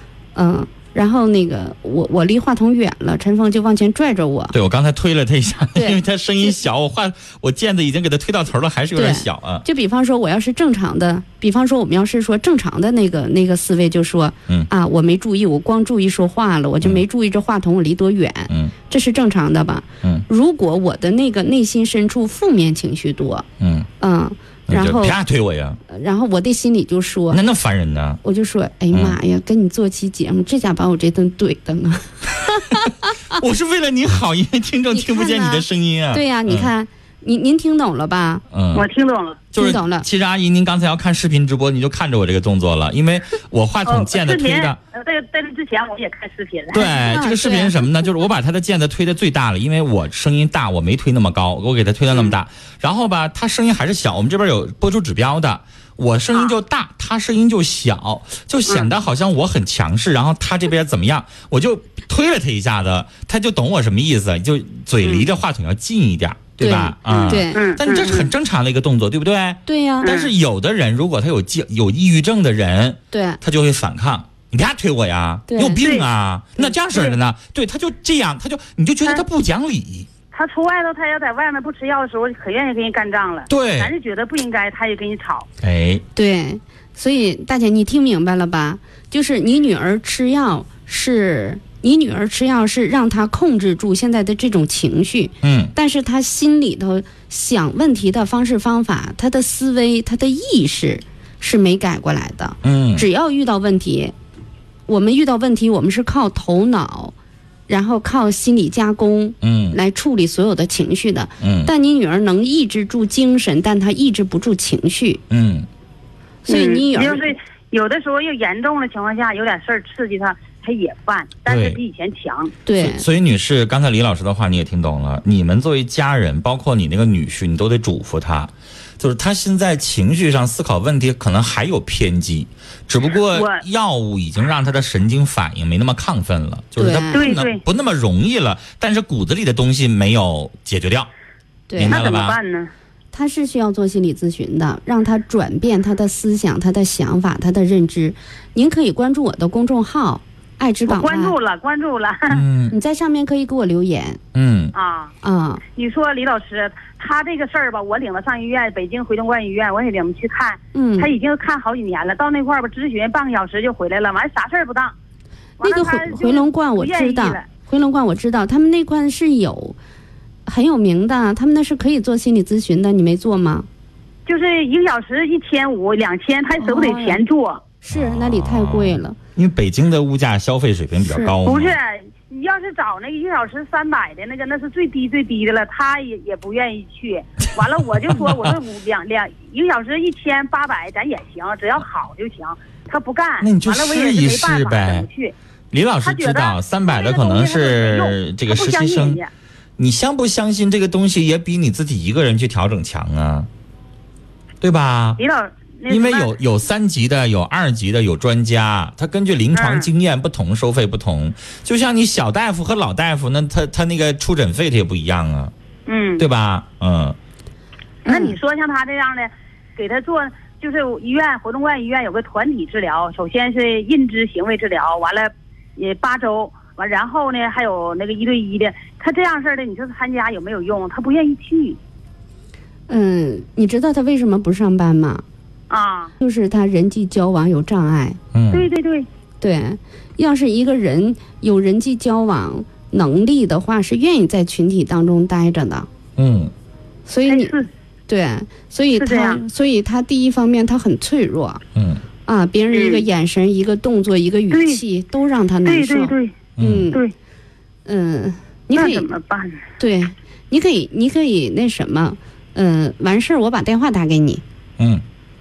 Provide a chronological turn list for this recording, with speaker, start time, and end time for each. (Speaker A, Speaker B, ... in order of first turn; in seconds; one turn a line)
Speaker A: 0.3-4.5
Speaker B: 4.5-9.7
Speaker A: 5.7-6.5
Speaker A: 9.0-23.5
Speaker B: 23.6-23.9
Speaker A: 24.0-25.2
Speaker B: 24.7-25.8
Speaker A: 25.9-27.4
Speaker B: 27.3-28.2
Speaker A: 28.2-32.9
Speaker B: 28.9-29.2
Speaker B: 32.5-36.7
Speaker A: 34.9-38.4
Speaker B: 38.5-38.9
Speaker C: 38.7-39.5
Speaker B: 39.5-44.8
Speaker A: 39.6-40.1
Speaker C: 43.9-47.0
Speaker B: 46.7-80.1
Speaker A: 47.0-47.8
Speaker A: 66.6-67.6
Speaker C: 67.1-68.3
Speaker A: 69.7-70.1
Speaker C: 70.0-70.3
Speaker A: 73.1-73.4
Speaker A: 75.5-75.8
Speaker C: 75.8-76.1
Speaker C: 80.3-85.5
Speaker B: 83.5-83.9
Speaker B: 85.6-86.0
Speaker A: 86.2-104.2
Speaker B: 95.4-95.7
Speaker B: 102.6-103.1
Speaker A: 104.9-107.1
Speaker A: 107.7-115.2
Speaker B: 109.4-109.8
Speaker B: 111.4-111.7
Speaker B: 115.3-115.7
Speaker A: 116.5-117.3
Speaker C: 116.5-122.5
Speaker B: 121.5-121.8
Speaker A: 122.7-123.0
Speaker B: 122.7-141.1
Speaker C: 133.3-133.6
Speaker A: 136.8-137.2
Speaker C: 137.1-137.6
Speaker A: 141.7-142.0
Speaker B: 141.8-142.4
Speaker C: 141.8-142.7
Speaker A: 143.1-151.3
Speaker C: 150.9-152.4
Speaker B: 152.3-152.8
Speaker A: 152.7-154.2
Speaker B: 154.3-154.7
Speaker C: 154.7-155.1
Speaker A: 155.2-155.6
Speaker C: 155.7-164.9
Speaker A: 160.7-161.1
Speaker C: 165.6-167.5
Speaker A: 165.6-169.8
Speaker A: 170.5-173.7
Speaker C: 174.3-177.6
Speaker A: 176.6-177.2
Speaker A: 177.8-179.2
Speaker B: 177.9-181.8
Speaker A: 181.0-181.4
Speaker C: 181.4-195.3
Speaker B: 188.1-188.6
Speaker B: 193.4-195.1
Speaker B: 195.7-199.2
Speaker C: 196.0-199.3
Speaker B: 199.8-203.5
Speaker B: 204.6-205.2
Speaker C: 205.2-206.3
Speaker B: 205.9-215.5
Speaker C: 209.6-209.9
Speaker C: 215.9-216.2
Speaker B: 216.2-217.2
Speaker A: 218.1-218.4
Speaker C: 218.1-231.8
Speaker A: 232.9-235.2
Speaker C: 235.7-236.1
Speaker A: 236.2-238.2
Speaker B: 238.3-238.7
Speaker C: 238.5-239.1
Speaker A: 239.4-245.9
Speaker B: 246.2-246.5
Speaker A: 247.1-247.6
Speaker C: 247.3-247.7
Speaker A: 248.1-251.6
Speaker C: 249.0-249.4
Speaker B: 251.8-252.0
Speaker A: 252.3-257.0
Speaker C: 252.7-253.1
Speaker C: 254.5-254.8
Speaker C: 255.7-256.4
Speaker B: 256.6-256.9
Speaker A: 257.9-259.1
Speaker C: 258.8-259.6
Speaker A: 259.8-264.4
Speaker B: 264.8-265.0